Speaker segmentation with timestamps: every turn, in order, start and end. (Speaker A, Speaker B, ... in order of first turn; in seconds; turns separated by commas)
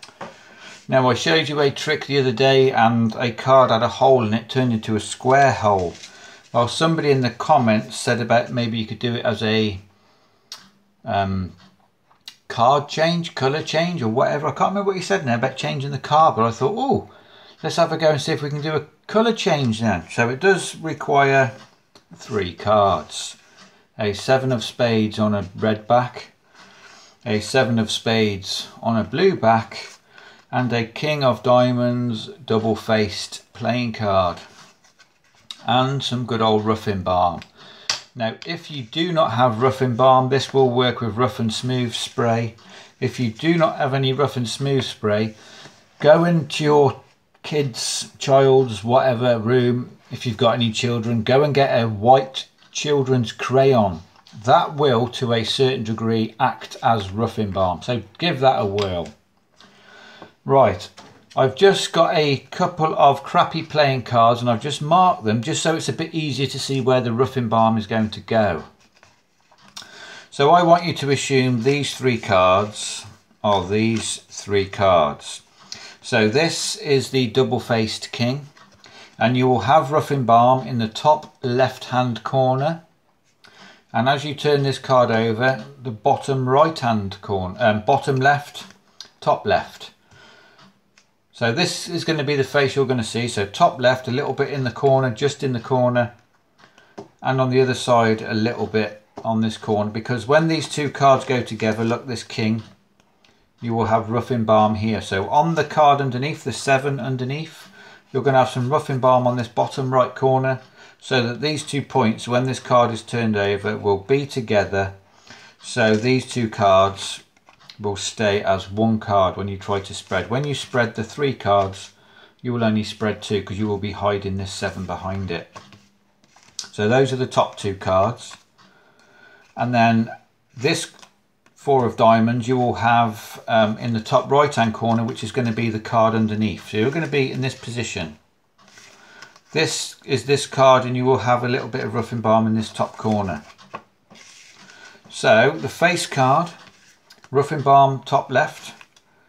Speaker A: 0.9-6.0, Speaker A: 6.5-9.8, Speaker A: 11.0-11.5, Speaker A: 12.5-17.1, Speaker A: 17.6-21.5, Speaker A: 22.1-23.4, Speaker A: 24.0-26.3, Speaker A: 27.2-29.9, Speaker A: 30.5-34.4, Speaker A: 35.6-37.4, Speaker A: 38.1-45.3, Speaker A: 46.0-59.1, Speaker A: 60.4-68.7, Speaker A: 70.3-75.4, Speaker A: 76.0-78.5, Speaker A: 79.2-82.8, Speaker A: 83.9-88.7, Speaker A: 89.2-89.9, Speaker A: 91.3-96.1, Speaker A: 97.2-102.6, Speaker A: 103.6-114.9, Speaker A: 115.6-117.2, Speaker A: 117.8-121.9, Speaker A: 122.4-125.5, Speaker A: 126.7-128.4, Speaker A: 129.6-130.9, Speaker A: 131.6-138.2, Speaker A: 139.5-143.4, Speaker A: 145.1-146.5, Speaker A: 147.3-148.7